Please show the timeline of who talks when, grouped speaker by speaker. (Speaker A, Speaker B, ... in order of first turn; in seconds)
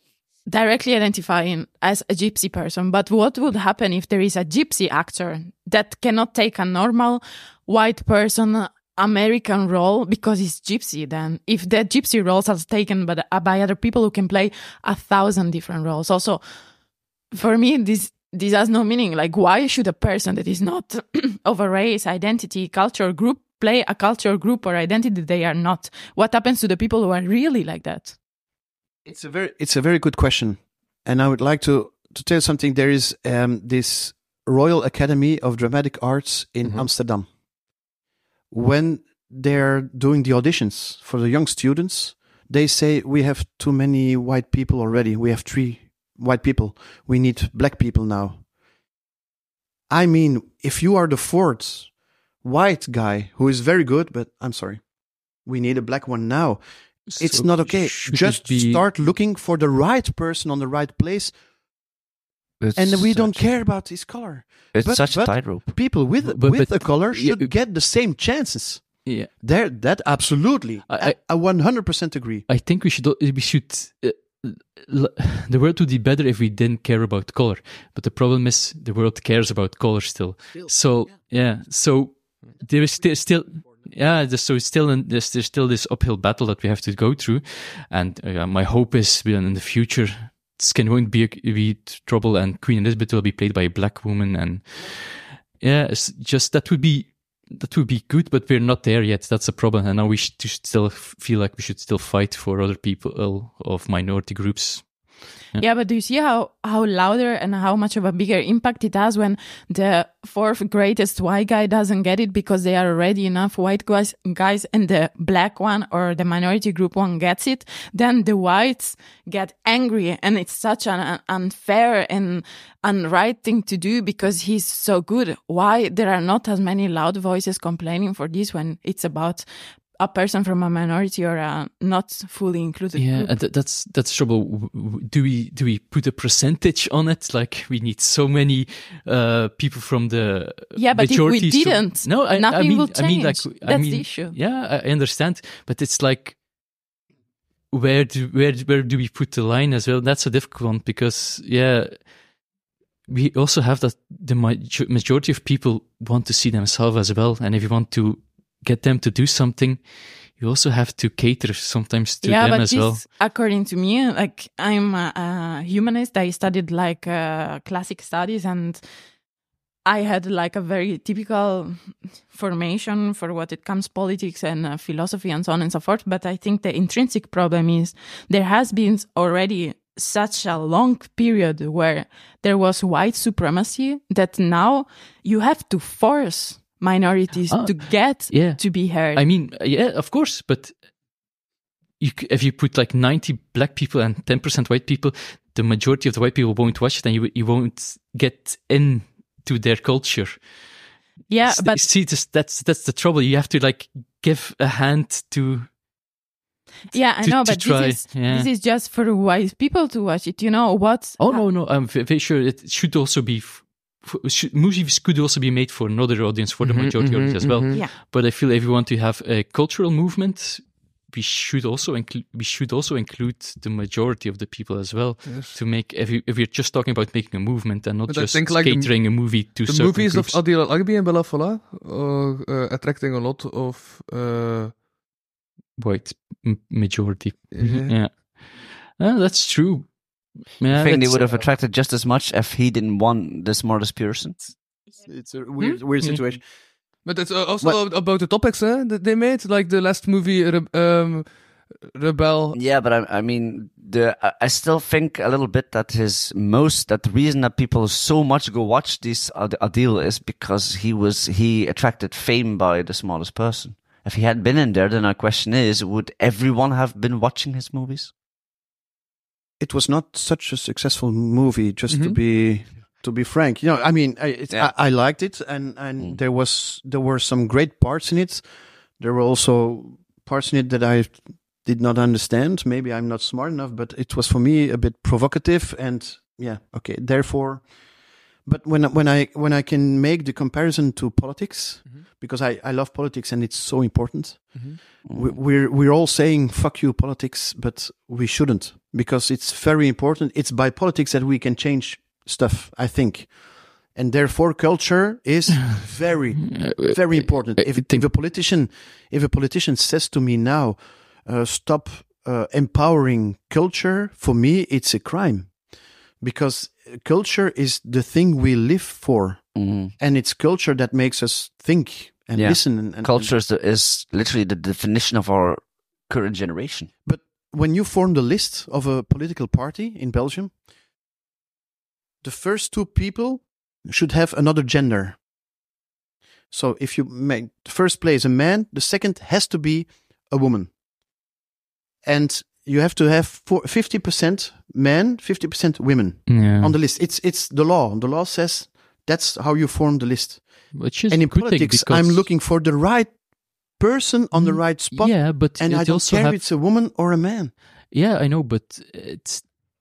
Speaker A: 0.4-16.4, 17.3-28.1, 105.5-133.4, 140.7-144.4, 162.2-168.8, 169.8-189.2, 201.3-201.9, 206.9-211.4
Speaker B: 29.0-37.3, 38.5-48.4, 49.9-54.8, 55.4-56.6, 57.1-61.3, 62.7-72.5, 80.5-80.9, 245.0-246.4, 269.6-278.4, 279.0-287.7, 288.4-315.5, 316.2-319.4, 319.9-323.3, 327.0-330.5, 332.2-335.2, 336.5-340.7, 342.0-357.5
Speaker C: 57.1-58.9, 66.2-67.5, 69.0-69.3, 70.9-71.2, 72.5-105.6, 132.9-146.4, 147.7-152.1, 153.1-159.8, 160.3-163.0, 187.5-190.8, 192.0-200.4, 201.4-205.7, 206.9-208.5, 211.2-230.4, 235.8-240.0, 240.6-241.4, 306.4-308.1, 346.3-346.8, 350.7-352.3, 354.3-356.4, 357.9-359.5
Speaker D: 62.6-63.4, 64.7-65.6, 240.7-244.4, 252.5-268.1, 295.1-295.4, 319.6-319.9, 322.4-326.9
Speaker E: 216.6-217.8, 225.2-225.6, 228.1-234.7, 237.5-237.9, 247.1-251.3, 251.9-252.6, 271.9-272.2